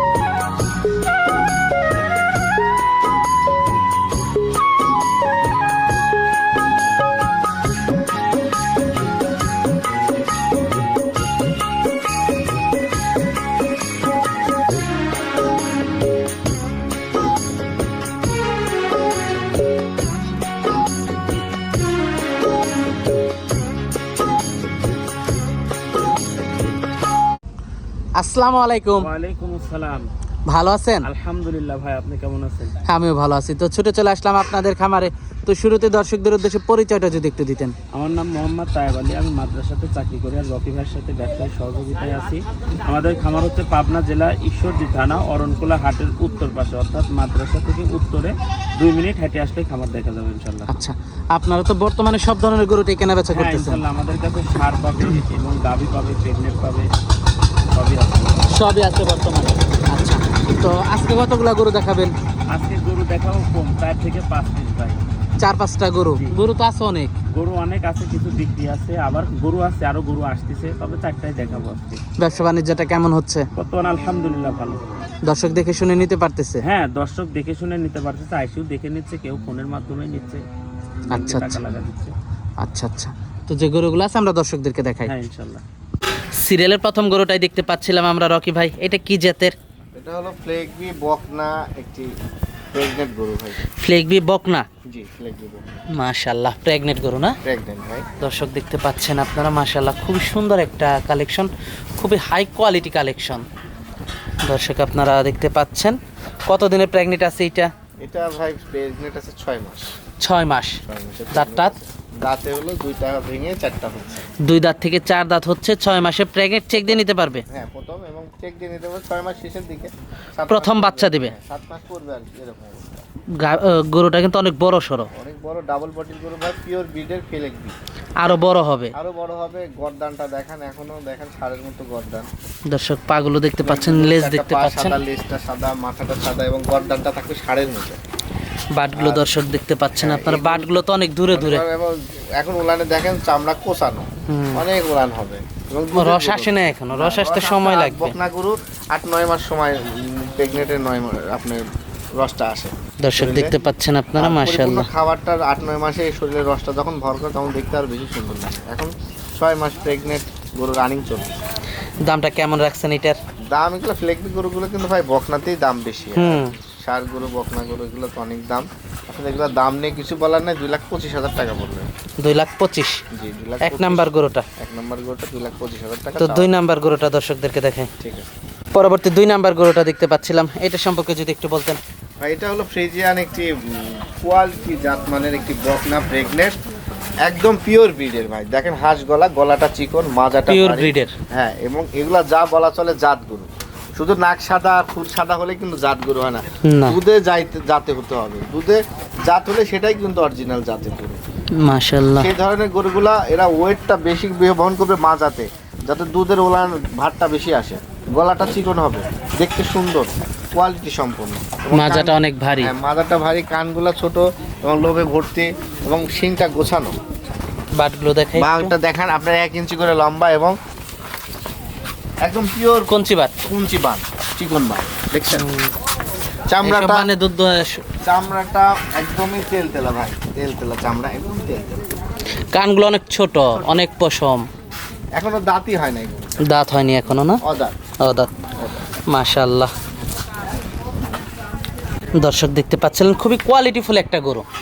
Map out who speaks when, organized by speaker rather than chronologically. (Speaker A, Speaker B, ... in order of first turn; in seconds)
Speaker A: 28.2-29.1, 30.5-31.1, 32.9-37.7, 50.7-53.8, 58.5-62.1, 65.4-67.1, 72.2-73.5, 75.2-76.6, 81.1-81.6, 82.6-85.1, 86.4-89.5, 93.8-94.7, 95.9-97.4, 98.2-103.4, 104.4-105.9, 106.5-107.7, 110.2-110.8, 111.3-111.7, 114.4-117.4, 120.5-121.3, 123.4-125.1, 128.2-128.9, 132.7-134.9, 138.7-141.6, 144.3-144.7, 145.9-148.1, 153.0-154.9, 162.0-163.2, 166.2-166.5, 172.2-173.0, 173.6-174.4, 176.2-177.9, 178.7-181.8, 190.5-191.1, 196.6-197.0, 201.6-202.3, 211.7-212.7, 217.8-218.7, 222.9-223.4, 225.3-225.7, 226.6-227.8, 232.5-234.4, 236.4-237.4, 238.0-238.3, 239.1-239.7, 242.2-244.4
Speaker B: 28.9-30.1, 31.0-32.8, 37.9-50.7, 53.3-56.9, 57.7-58.5, 62.5-65.0, 67.3-72.0, 73.5-74.8, 76.6-80.4, 81.1-82.1, 85.0-85.6
Speaker C: 89.9-92.1, 92.7-93.6, 94.9-95.6, 97.4-98.1, 108.0-109.9, 110.8-114.2, 116.7-123.0, 125.1-127.8, 128.9-132.3, 133.6-138.0, 138.9-139.2, 139.9-140.8, 141.3-151.6, 152.2-153.5, 154.2-161.4, 163.5-171.9, 173.1-176.5, 178.0-178.3, 182.2-186.6, 187.2-201.2, 202.2-216.9, 218.3-220.6, 222.2-225.5, 226.5-227.1, 228.0-231.8, 233.5-233.8, 235.2-236.4, 237.4-237.8, 238.6-238.9